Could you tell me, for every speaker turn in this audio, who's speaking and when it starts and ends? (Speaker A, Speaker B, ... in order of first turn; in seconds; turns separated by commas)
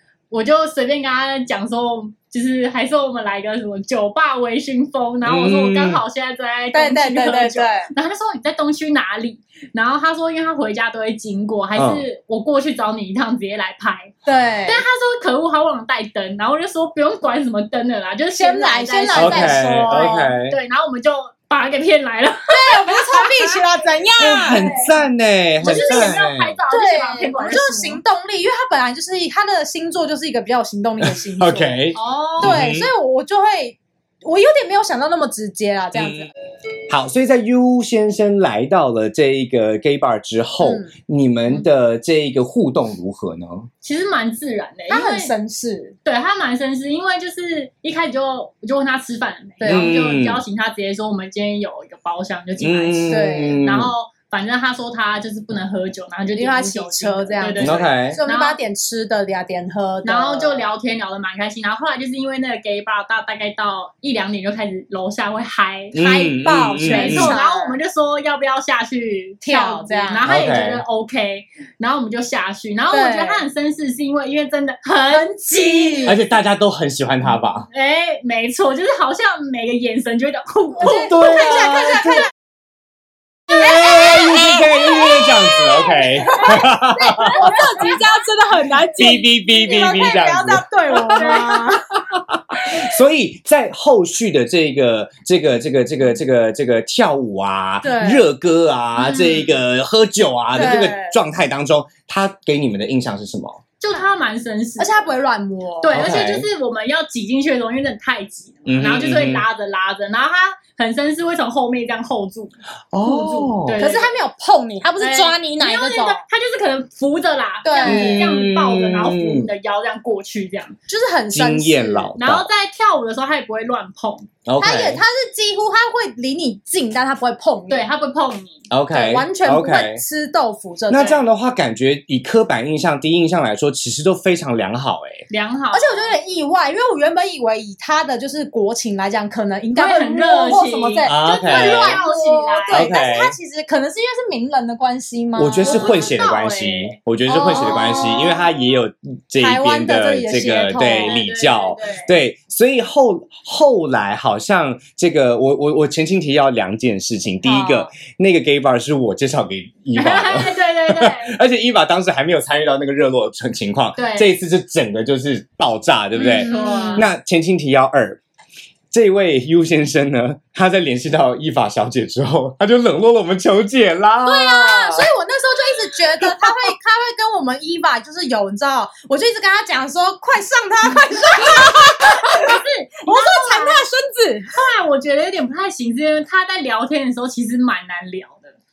Speaker A: 0.3-14.1, Speaker B: 5.2-6.0, Speaker C: 6.7-7.9, Speaker B: 11.8-12.1, Speaker C: 14.3-14.8, Speaker A: 14.7-23.6, Speaker C: 18.3-20.3, Speaker B: 19.1-20.6, Speaker C: 22.5-24.7, Speaker B: 24.2-26.6, Speaker A: 24.4-24.9, Speaker A: 25.6-28.0, Speaker C: 25.6-26.1, Speaker C: 26.7-31.9, Speaker B: 31.0-32.9, Speaker A: 32.0-32.6, Speaker C: 32.4-36.3, Speaker B: 36.0-36.3, Speaker B: 36.9-43.7, Speaker C: 40.6-40.9, Speaker A: 43.8-45.3, Speaker C: 44.9-46.0, Speaker A: 46.0-58.6, Speaker C: 49.6-49.9, Speaker B: 49.7-50.4, Speaker B: 52.6-53.9, Speaker C: 53.1-53.6, Speaker C: 56.4-60.7, Speaker B: 57.6-58.2, Speaker A: 60.0-65.9, Speaker B: 65.9-67.4, Speaker C: 65.9-67.8, Speaker A: 66.8-76.2, Speaker C: 69.4-70.3, Speaker B: 70.2-70.8, Speaker C: 72.9-73.4, Speaker C: 75.1-76.2, Speaker B: 76.0-77.7, Speaker A: 77.7-81.2, Speaker B: 80.8-82.3, Speaker C: 80.8-82.1, Speaker B: 83.5-87.7, Speaker C: 83.6-91.9, Speaker A: 87.3-88.0, Speaker B: 89.0-91.4, Speaker A: 91.2-91.8, Speaker B: 92.2-103.6, Speaker C: 97.8-98.3, Speaker A: 99.0-99.6, Speaker C: 100.5-101.2, Speaker A: 103.8-105.1, Speaker C: 104.8-105.9, Speaker A: 105.8-112.5, Speaker B: 105.9-106.5, Speaker B: 108.7-109.5, Speaker B: 112.9-113.9, Speaker A: 113.1-114.2, Speaker C: 113.1-116.2, Speaker A: 115.0-120.8, Speaker C: 117.6-118.3, Speaker B: 117.8-119.5, Speaker C: 120.9-122.1, Speaker B: 121.3-122.5, Speaker A: 122.2-124.3, Speaker B: 124.5-125.0, Speaker C: 124.6-127.9, Speaker A: 127.7-128.7, Speaker B: 128.7-130.0, Speaker C: 128.9-131.2, Speaker B: 130.9-135.2, Speaker A: 135.3-136.2, Speaker C: 135.7-145.9, Speaker A: 139.8-142.9, Speaker B: 141.1-142.0, Speaker B: 142.7-143.3, Speaker B: 145.4-168.2, Speaker A: 145.7-147.0, Speaker C: 147.3-148.4, Speaker C: 149.4-151.2, Speaker A: 151.0-152.1, Speaker C: 157.4-157.9, Speaker A: 159.9-161.4, Speaker A: 164.0-164.3, Speaker A: 166.2-167.1, Speaker C: 166.2-167.1, Speaker B: 168.9-175.1, Speaker C: 174.2-184.5, Speaker B: 176.2-176.5, Speaker A: 181.5-183.9, Speaker A: 184.5-188.6